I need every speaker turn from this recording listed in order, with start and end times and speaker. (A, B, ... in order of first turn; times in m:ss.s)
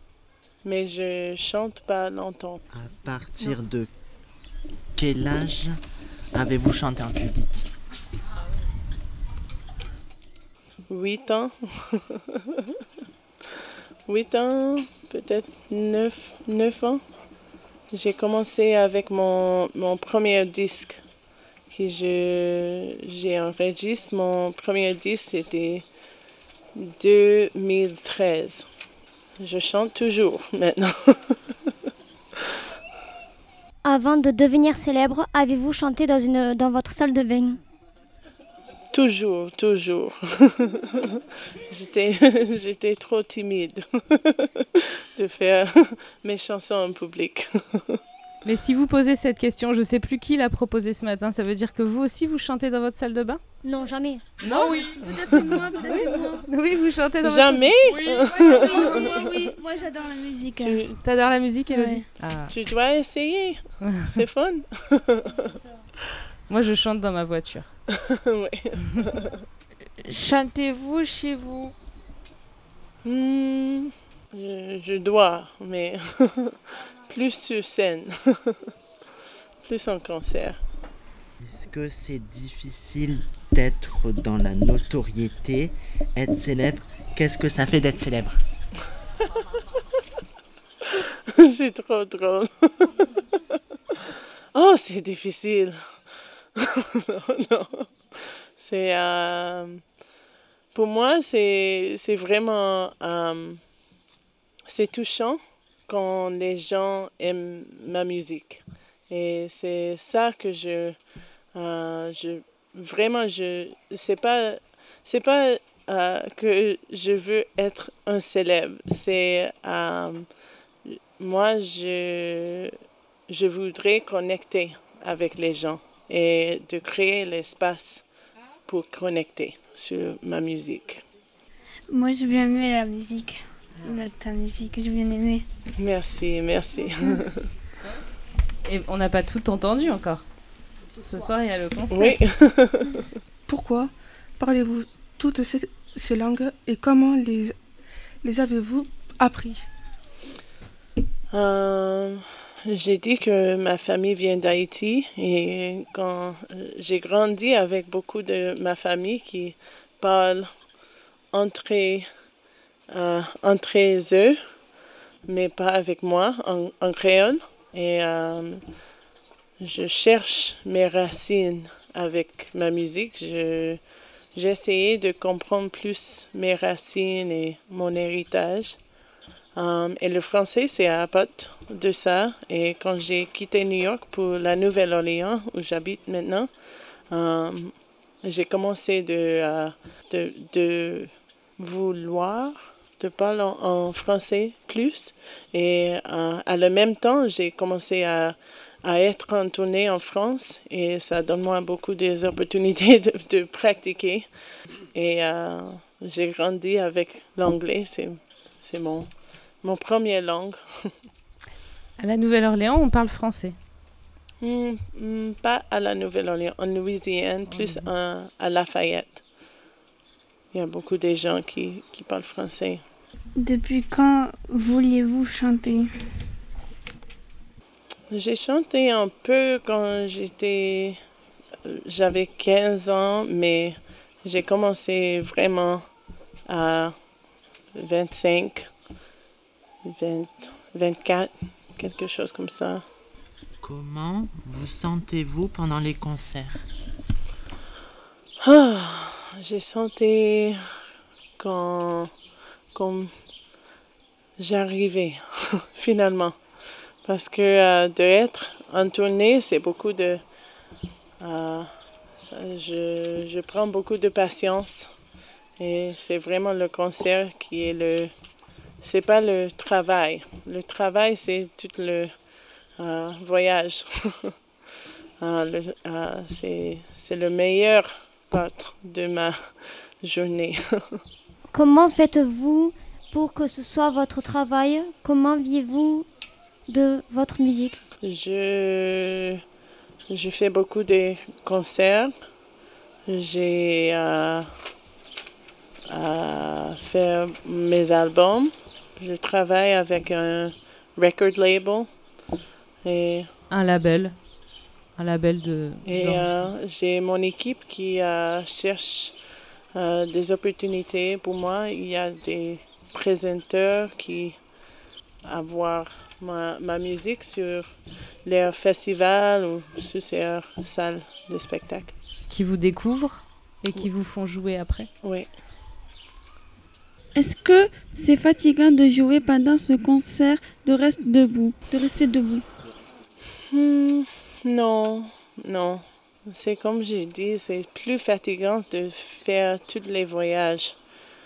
0:00.6-0:02.6 A
0:02.7-0:03.9 B
0:05.0-0:05.8 B
0:06.3-0:07.7 B
0:10.9-0:12.7 A
0:14.1-0:17.0 A
0:17.9-0:21.0 A
0:21.7-0:25.8 A
0:26.7-0:28.7 A
0:29.4-0:31.4 A
0:33.8-0:37.6 C
0:38.9-0:48.0 A
0:48.4-0:53.4 D
0:53.6-0:54.3 C
0:54.4-0:55.0 D
0:54.4-0:56.5 E
0:55.8-0:57.8 D
0:57.2-0:59.5 A
0:58.0-0:58.6 F
0:58.4-1:00.8 G
0:58.5-0:59.5 E
1:00.6-1:01.0 A
1:01.0-1:02.5 D
1:01.7-1:02.0 G
1:02.5-1:05.6 A
1:03.8-1:04.2 D
1:06.5-1:07.7 D
1:07.9-1:09.4 A
1:10.0-1:11.7 F
1:13.0-1:18.7 A
1:19.6-1:20.6 A
1:21.4-1:28.4 B
1:30.9-1:33.0 A
1:33.9-1:35.8 A
1:36.6-1:39.8 A
1:40.7-1:43.6 A
1:44.7-1:51.0 A
1:51.5-2:00.3 A
2:00.8-2:02.8 A
2:03.3-2:08.0 A
2:08.7-2:11.0 A
2:11.9-2:15.4 G
2:15.8-2:17.5 A
2:18.6-2:20.2 D
2:21.0-2:22.2 D
2:21.9-2:23.1 A
2:23.5-2:27.5 H
2:28.2-2:29.6 H
2:31.3-2:40.5 A
2:41.3-2:42.1 A
2:42.9-2:44.4 A
2:45.3-2:48.6 A
2:49.6-2:53.8 A
2:54.3-2:58.8 A
2:59.6-3:06.5 A
3:07.1-3:24.3 A
3:24.9-3:29.1 A
3:29.6-3:30.9 A
3:32.0-3:33.6 D
3:34.4-3:39.2 A
3:37.5-3:37.9 D
3:40.5-3:42.8 A
3:43.4-3:45.9 G
3:48.1-3:51.0 A
3:51.6-3:55.8 A
3:56.5-3:56.9 A
3:57.7-3:58.7 A
3:59.8-4:02.8 A
4:03.6-4:06.6 B
4:08.4-4:10.6 A
4:11.4-4:12.1 A
4:12.7-4:13.1 A
4:14.4-4:16.4 A
4:17.0-4:20.2 A
4:21.2-4:24.9 A
4:25.6-4:28.1 A
4:28.8-4:32.1 A
4:32.8-4:34.3 A
4:35.2-4:41.0 A
4:41.5-4:46.1 C
4:46.7-4:47.8 C
4:48.0-4:49.4 A
4:50.1-4:52.1 A
4:53.1-4:54.5 A
4:55.9-5:01.9 A
5:02.8-5:03.3 A
5:03.5-5:04.1 D
5:05.0-5:06.3 D
5:05.8-5:09.1 A
5:09.7-5:14.4 A
5:15.2-5:17.7 A
5:18.2-5:21.9 A
5:22.3-5:24.9 D
5:25.0-5:25.3 A
5:27.1-5:32.4 E
5:33.4-5:40.8 A